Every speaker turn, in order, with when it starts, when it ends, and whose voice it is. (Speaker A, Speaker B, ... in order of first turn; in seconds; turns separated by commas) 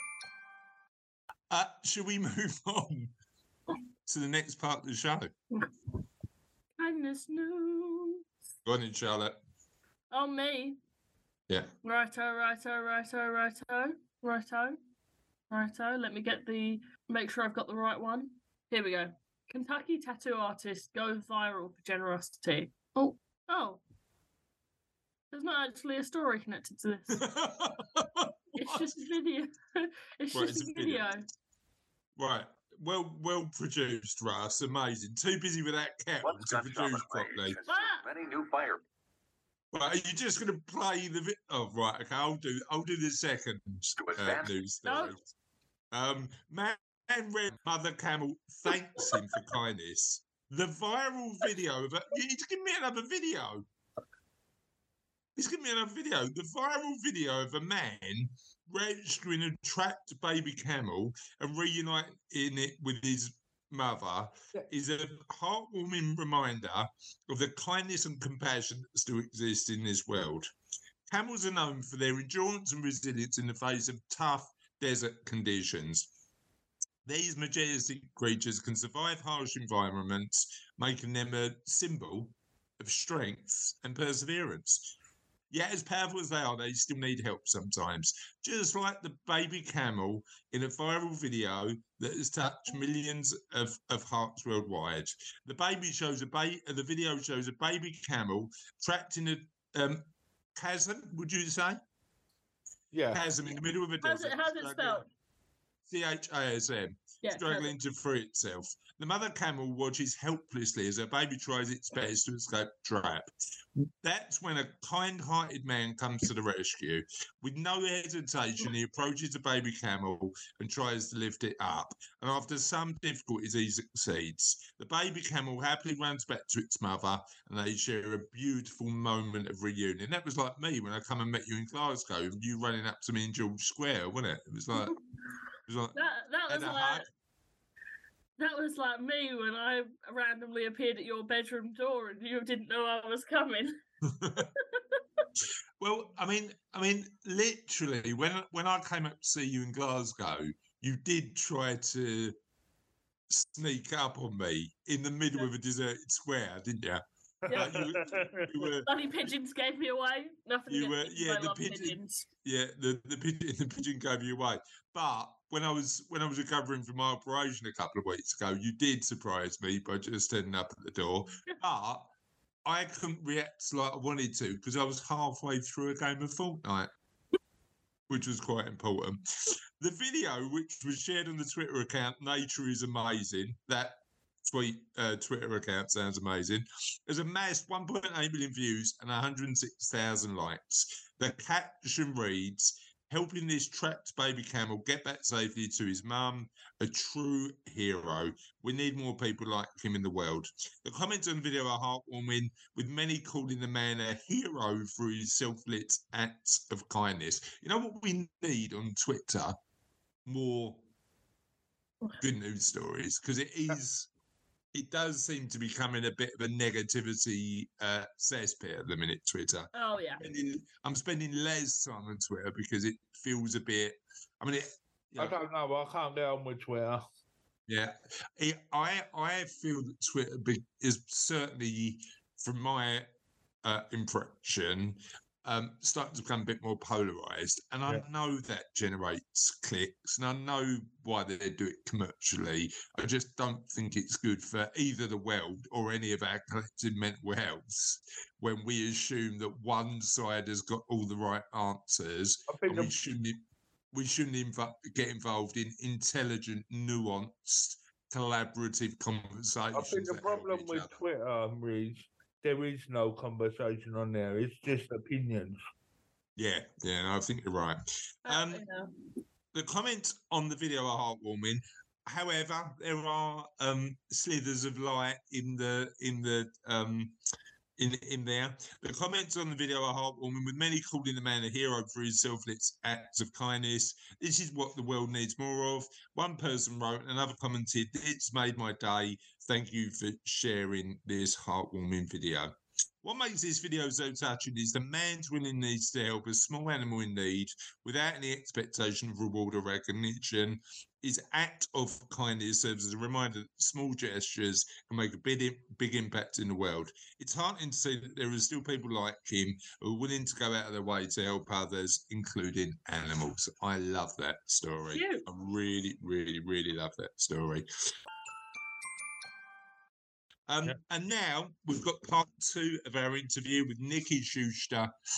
Speaker A: 1.5-3.1, Speaker A: 4.1-5.3, Speaker B: 6.8-8.2, Speaker A: 8.7-9.4, Speaker B: 10.1-10.8, Speaker B: 11.8-14.8, Speaker B: 15.5-23.8, Speaker B: 25.3-27.3, Speaker A: 27.2-28.9, Speaker B: 28.6-31.2, Speaker A: 30.3-31.1, Speaker A: 32.2-37.6, Speaker C: 36.2-38.8, Speaker B: 37.7-38.0, Speaker A: 39.7-45.2, Speaker C: 44.0-44.5, Speaker B: 44.8-45.1, Speaker A: 45.9-53.7, Speaker A: 55.4-70.5, Speaker A: 71.1-76.1, Speaker A: 77.0-84.9, Speaker A: 85.5-101.8, Speaker D: 102.9-103.2, Speaker A: 103.1-105.1, Speaker B: 104.0-105.1, Speaker A: 105.9-135.0, Speaker B: 107.2-107.7, Speaker A: 135.7-136.0, Speaker B: 135.9-137.1, Speaker A: 136.5-137.0, Speaker B: 138.4-143.8, Speaker A: 144.1-144.5, Speaker A: 145.8-152.4, Speaker A: 153.3-158.9, Speaker D: 157.4-158.5, Speaker B: 157.5-157.9, Speaker B: 158.8-162.2, Speaker A: 160.7-172.1, Speaker A: 172.7-176.9, Speaker A: 178.1-209.6, Speaker A: 210.3-210.8, Speaker A: 212.2-214.1, Speaker A: 214.7-225.4, Speaker B: 219.7-220.2, Speaker D: 225.2-227.1, Speaker A: 227.7-233.1, Speaker A: 233.6-253.4, Speaker D: 252.5-252.9, Speaker A: 253.9-260.9, Speaker D: 259.7-265.6, Speaker A: 266.4-268.6, Speaker B: 268.3-268.9, Speaker A: 269.5-277.2, Speaker A: 277.8-317.9, Speaker B: 314.9-315.2, Speaker A: 320.5-324.9